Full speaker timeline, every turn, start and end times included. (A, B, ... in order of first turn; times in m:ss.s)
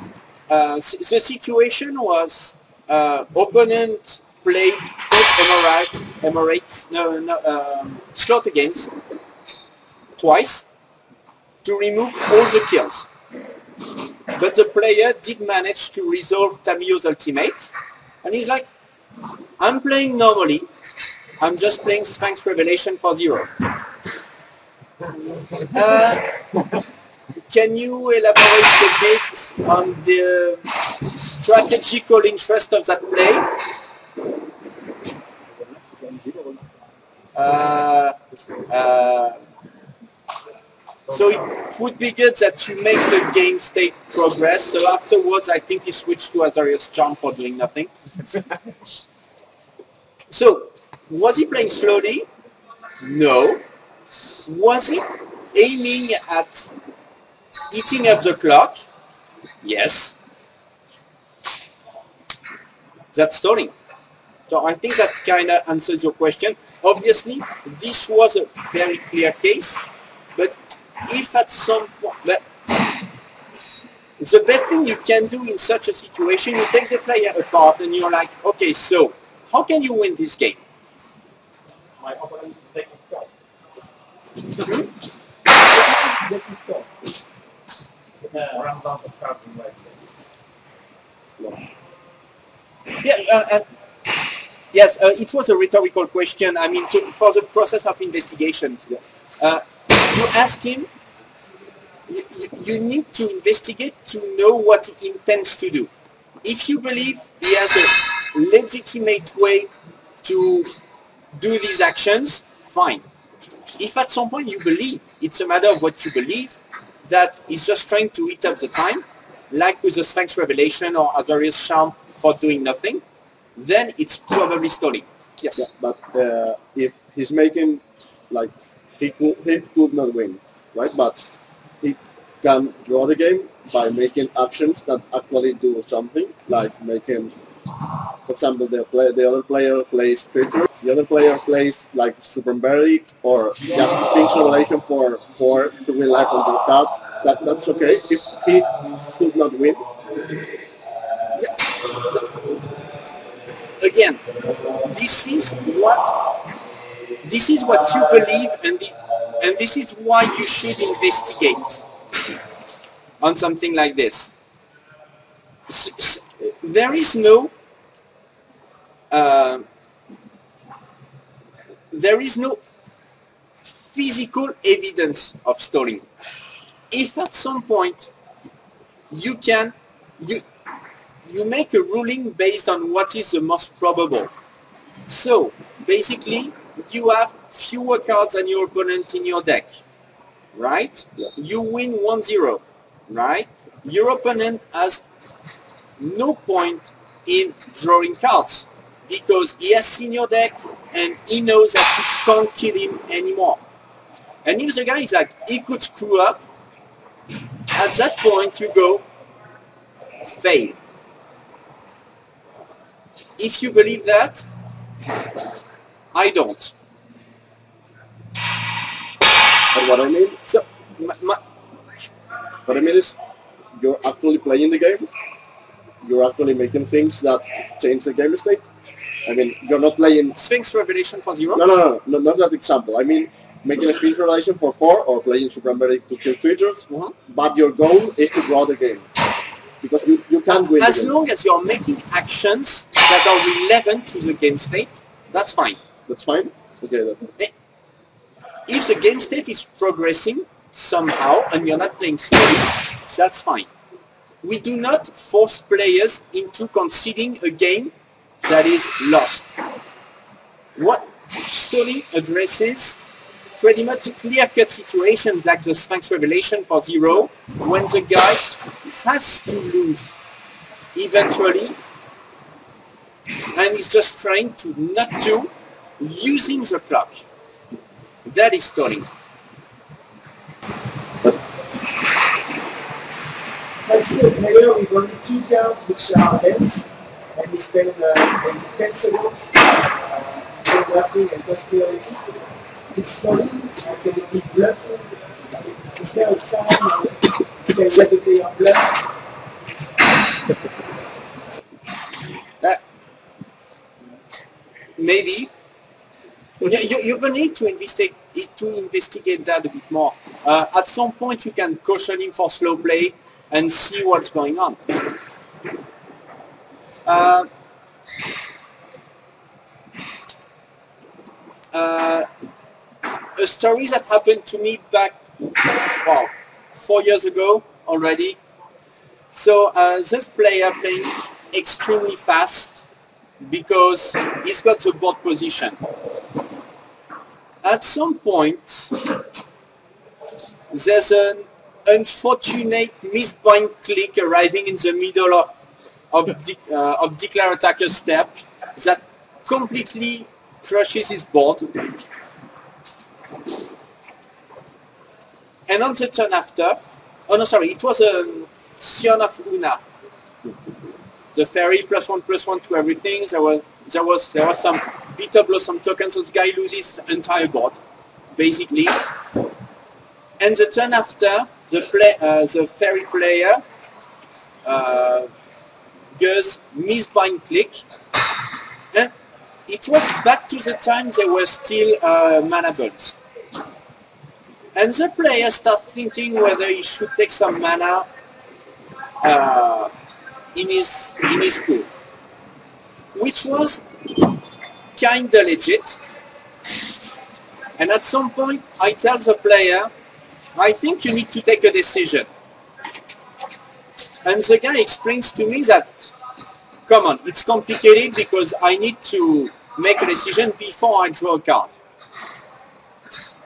0:00.5-0:08.9 A
0:10.2-0:10.7 A
0:11.6-0:13.1 A
0:14.4-0:18.7 A
0:19.6-0:20.7 A
0:21.4-0:23.5 A
0:25.7-0:26.2 A
0:27.5-0:33.5 A
0:35.7-0:36.6 B
0:37.3-0:38.2 A
0:38.7-0:39.4 A
0:41.1-0:47.9 A
0:50.3-0:52.2 A
0:53.0-0:53.6 A
0:54.4-0:56.7 A
0:57.7-0:58.8 A
0:59.6-1:00.2 A
1:03.1-1:03.7 A
1:04.5-1:12.4 A
1:14.2-1:20.6 A
1:22.0-1:23.4 B
1:25.5-1:27.2 B
1:28.3-1:29.8 B
1:33.0-1:33.6 A
1:34.7-1:38.8 A
1:39.4-1:40.9 A
1:42.1-1:45.9 A
1:46.4-1:49.7 A
1:50.2-1:50.7 A
1:51.3-1:53.0 A
1:53.8-2:03.0 A
2:03.6-2:05.6 A
2:05.6-2:11.2 C
2:11.8-2:17.3 C
2:18.2-2:29.9 C
2:31.4-2:32.4 A
2:33.8-2:34.2 A
2:34.8-2:36.2 A
2:37.2-2:41.8 A
2:43.2-2:44.3 A
2:45.7-2:47.5 A
2:49.1-2:49.6 A
2:51.9-2:52.6 A
2:53.6-2:56.0 A
2:56.9-2:58.1 A
2:59.1-3:00.4 A
3:01.2-3:04.3 A
3:05.1-3:09.8 A
3:10.5-3:15.0 A
3:16.0-3:23.6 A
3:24.4-3:26.4 A
3:27.7-3:29.0 A
3:30.2-3:30.8 A
3:33.4-3:34.5 A
3:36.1-3:36.7 A
3:39.7-3:40.4 C
3:40.5-3:41.4 A
3:42.6-3:43.2 C
3:43.8-3:45.1 C
3:46.0-3:48.7 C
3:49.2-3:50.4 C
3:50.4-3:51.6 A
3:51.6-3:59.1 C
3:56.9-3:57.1 A
3:59.8-4:01.1 C
4:00.7-4:05.8 A
4:06.1-4:07.3 C
4:08.7-4:13.7 A
4:14.4-4:19.5 A
4:20.8-4:23.0 A
4:23.6-4:30.2 A
4:30.9-4:31.8 A
4:33.5-4:37.2 A
4:38.2-4:39.1 A
4:43.8-4:52.3 B
4:52.9-4:55.1 B
4:55.8-4:59.0 B
5:05.0-5:05.5 A
5:06.6-5:14.8 A
5:17.0-5:17.5 A
5:21.7-5:22.3 A
5:23.4-5:25.2 A
5:26.0-5:28.4 A
5:29.3-5:32.8 A
5:33.4-5:35.8 A
5:37.6-5:39.1 A
5:40.7-5:45.6 A
5:46.1-5:51.8 A
5:55.7-5:59.8 A
6:01.3-6:07.8 A
6:08.4-6:09.0 A
6:10.4-6:13.6 A
6:14.6-6:15.3 A
6:16.2-6:17.8 A
6:19.7-6:23.2 A
6:24.7-6:28.1 A
6:29.2-6:29.9 A
6:30.5-6:31.9 A
6:33.1-6:33.8 A
6:35.0-6:36.0 A
6:37.8-6:39.9 A
6:40.5-6:42.3 A
6:44.2-6:46.0 A
6:46.9-6:51.8 A